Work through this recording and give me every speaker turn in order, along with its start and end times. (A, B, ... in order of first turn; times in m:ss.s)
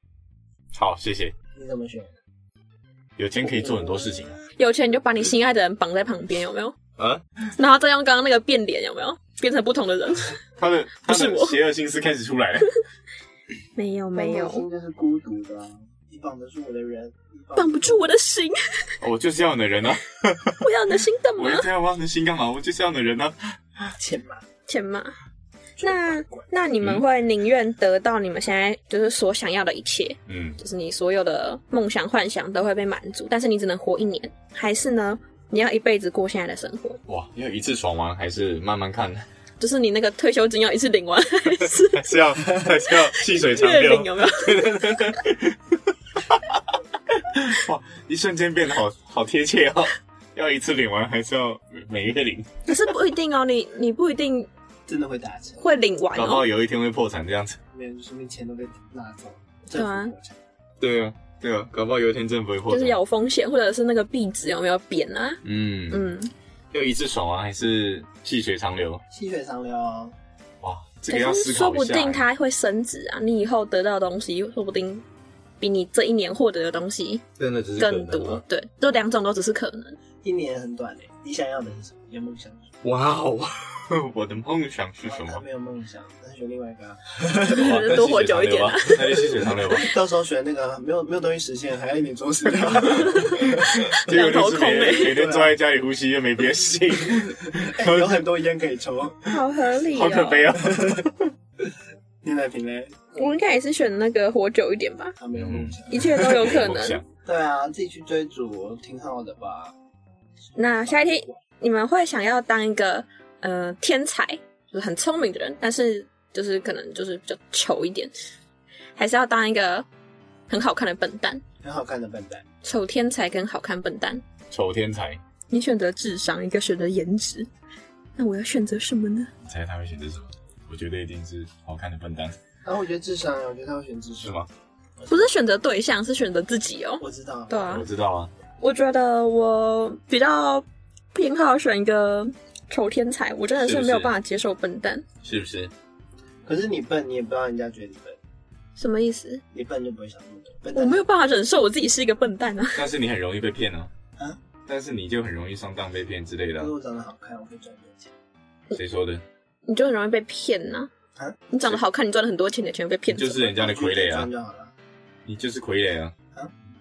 0:00.7-0:01.3 A
0:01.5-0:02.2 B
0:03.2-0:04.4 A
0:04.6-0:06.8 C
0:07.0-0:07.2 A
0:07.6-0:10.4 C
0:10.6-0:12.7 A
0:11.0-0:11.6 C
0:13.8-0:14.7 C
0:14.1-0:18.0 B
0:17.6-0:18.9 C
0:19.0-0:20.7 A
0:20.6-0:21.7 C
0:21.4-0:23.9 A
0:23.9-0:24.4 B
0:24.7-0:25.1 C
0:25.8-0:26.5 B
0:25.8-0:37.0 C
0:30.3-0:30.6 A
0:37.1-0:39.2 A
0:39.6-0:42.1 C
0:41.6-0:46.6 A
0:42.6-0:45.0 C
0:47.1-0:52.5 A
0:52.6-0:54.5 C
0:54.8-0:55.6 B
0:55.6-0:56.4 C
0:56.1-0:57.6 A
0:57.7-1:00.4 B
0:59.7-1:00.1 C
1:00.8-1:03.0 A
1:02.7-1:06.3 C
1:05.4-1:06.1 A
1:06.7-1:09.0 A
1:09.1-1:10.2 B
1:10.6-1:12.2 A
1:11.1-1:15.0 C
1:15.6-1:17.2 C
1:17.4-1:18.4 A
1:17.8-1:20.0 C
1:20.2-1:22.7 B
1:22.8-1:25.4 A
1:25.0-1:27.7 B
1:27.5-1:29.9 A
1:27.5-1:29.9 C
1:29.7-1:33.8 B
1:32.9-1:38.2 A
1:33.3-1:35.2 C
1:35.0-1:35.6 B
1:37.1-1:39.3 B
1:39.3-1:40.5 C
1:39.9-1:41.3 A
1:40.6-1:41.0 B
1:42.2-1:43.3 B
1:43.2-1:45.2 C
1:45.2-1:46.5 B
1:45.3-1:47.0 A
1:45.9-1:47.0 C
1:47.2-1:49.7 B
1:50.6-1:58.1 C
1:50.7-1:51.4 B
1:59.0-1:59.9 C
2:00.5-2:01.4 C
2:01.6-2:02.4 B
2:02.6-2:04.2 C
2:04.5-2:05.2 A
2:05.5-2:07.5 C
2:08.2-2:09.3 C
2:09.4-2:12.3 A
2:12.6-2:14.4 B
2:14.2-2:14.5 A
2:15.0-2:15.3 B
2:15.1-2:17.8 C
2:17.0-2:17.7 B
2:17.7-2:18.3 A
2:18.6-2:25.0 C
2:23.6-2:24.1 A
2:25.2-2:25.7 A
2:26.4-2:28.2 B
2:28.8-2:29.4 C
2:29.5-2:31.0 B
2:30.7-2:32.9 C
2:32.7-2:33.9 A
2:34.7-2:36.7 A
2:36.6-2:38.1 B
2:38.7-2:39.2 A
2:39.6-2:40.9 C
2:41.5-2:43.5 C
2:43.1-2:44.3 A
2:43.4-2:44.7 B
2:45.2-2:46.1 A